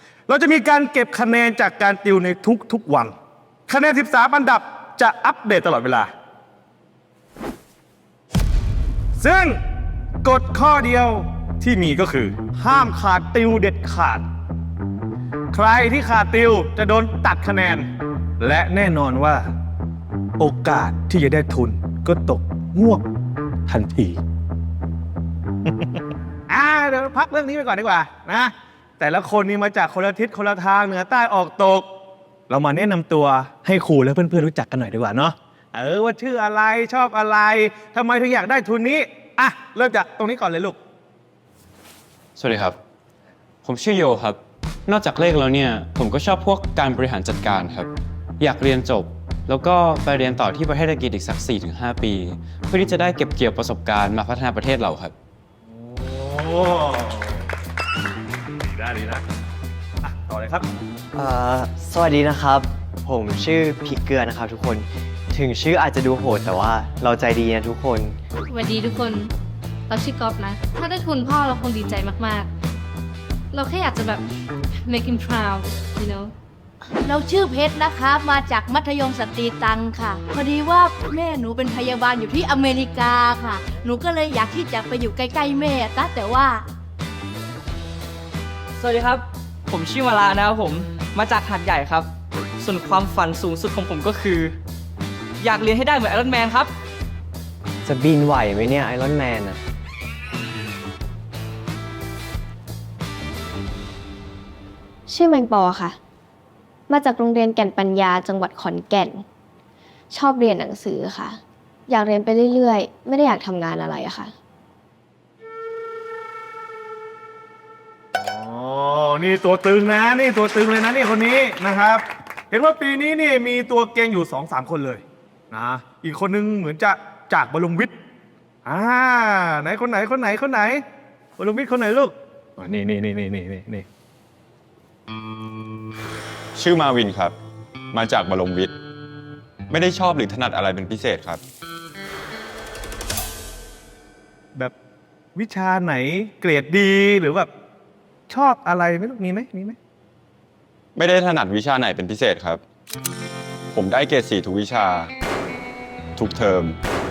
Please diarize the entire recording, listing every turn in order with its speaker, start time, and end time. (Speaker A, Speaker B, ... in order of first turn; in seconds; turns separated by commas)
Speaker A: 0.3-3.1, Speaker A: 3.7-6.1, Speaker A: 9.2-9.6, Speaker A: 10.2-14.3, Speaker A: 15.5-17.9, Speaker A: 18.4-19.5, Speaker A: 20.4-23.1, Speaker A: 23.6-24.2, Speaker A: 25.6-31.9, Speaker A: 32.5-40.8, Speaker B: 42.4-42.8, Speaker B: 43.6-55.1, Speaker A: 55.6-57.5, Speaker A: 58.6-59.2, Speaker A: 60.0-60.7, Speaker C: 61.1-68.2, Speaker D: 68.5-69.3, Speaker D: 69.9-72.5, Speaker D: 73.5-74.2, Speaker D: 74.8-76.3, Speaker E: 77.0-86.7, Speaker F: 88.8-94.6, Speaker F: 95.4-96.7, Speaker C: 97.8-99.6, Speaker G: 105.1-106.0, Speaker G: 106.9-109.2, Speaker G: 110.1-114.3, Speaker A: 118.1-127.9, Speaker A: 128.7-130.8, Speaker A: 131.4-133.9, Speaker H: 136.6-137.3, Speaker H: 137.9-138.7, Speaker H: 139.7-141.4, Speaker A: 145.3-147.5, Speaker A: 148.3-149.8, Speaker H: 151.0-152.6, Speaker H: 153.7-155.1, Speaker H: 156.2-156.8